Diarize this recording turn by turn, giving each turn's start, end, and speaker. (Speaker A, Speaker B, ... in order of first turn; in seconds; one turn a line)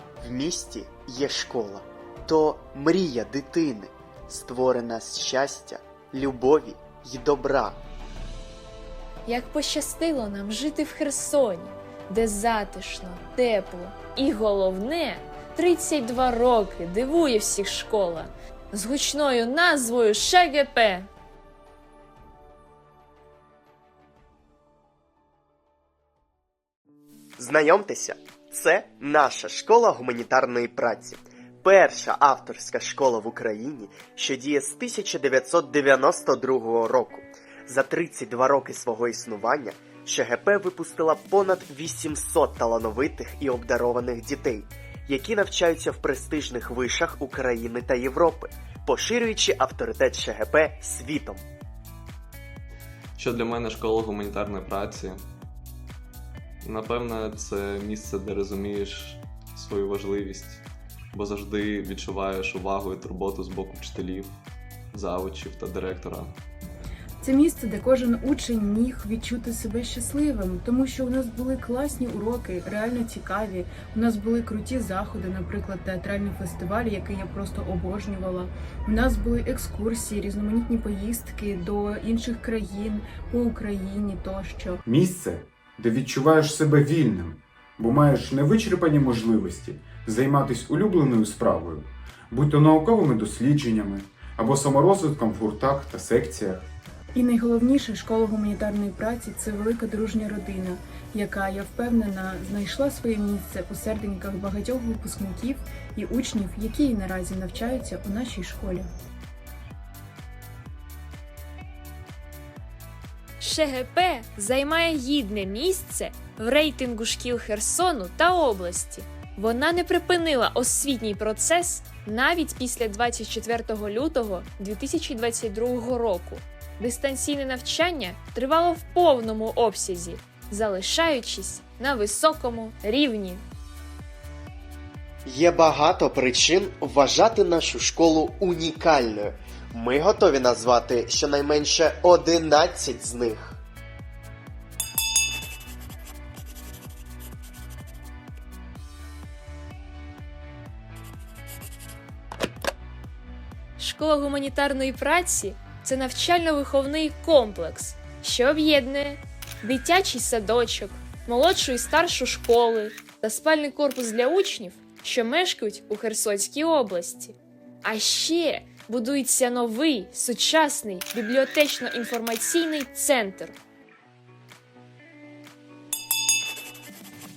Speaker A: 0.2-7.8
Speaker B: 9.3-21.1
Speaker A: 27.4-51.4
Speaker C: 53.2-55.3
Speaker C: 56.6-60.6
Speaker C: 61.1-64.4
Speaker C: 64.9-66.4
Speaker D: 67.2-84.8
Speaker E: 84.9-96.7
Speaker D: 97.2-108.9
Speaker B: 113.4-133.4
Speaker A: 135.3-143.6
Speaker B: 153.8-173.6